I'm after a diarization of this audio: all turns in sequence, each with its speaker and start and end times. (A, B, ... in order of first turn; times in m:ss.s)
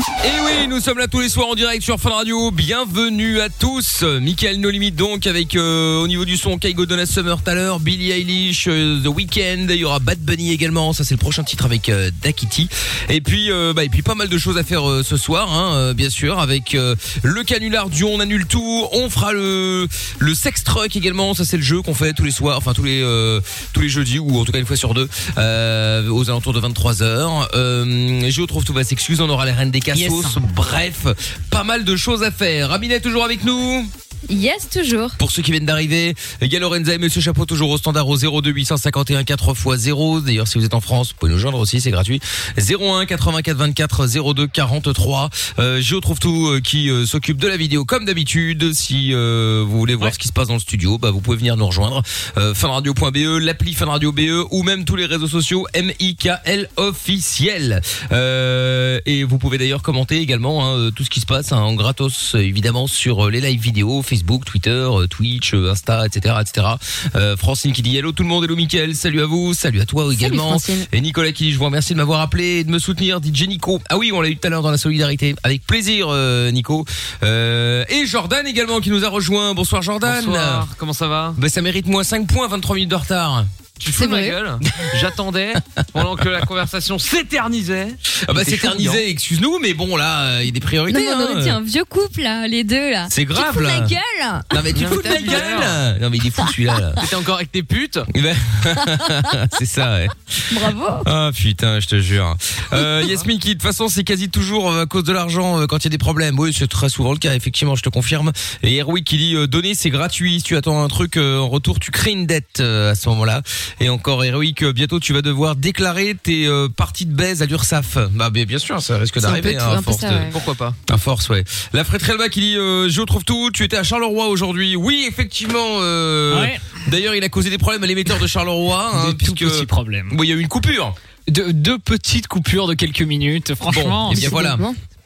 0:00.2-0:33.9 A
0:30.0-0:30.3 B
0:34.3-0:35.2 C
0:35.2-1:20.7 A
1:10.1-1:10.9 C
1:20.0-1:21.4 D
1:21.4-1:23.5 A
1:23.8-1:29.0 D
1:24.0-1:24.4 C
1:28.1-1:31.6 A
1:30.9-1:34.5 C
1:33.1-1:34.0 A
1:34.5-1:37.0 A
1:34.7-1:35.8 D
1:37.0-1:38.1 D
1:38.1-2:00.3 A
1:40.5-1:41.1 C
1:59.2-2:00.4 C
2:00.3-2:00.8 D
2:00.8-2:11.0 A
2:06.3-2:06.7 B
2:08.9-2:10.1 B
2:11.3-2:14.4 B
2:13.7-2:14.6 A
2:14.1-2:14.8 C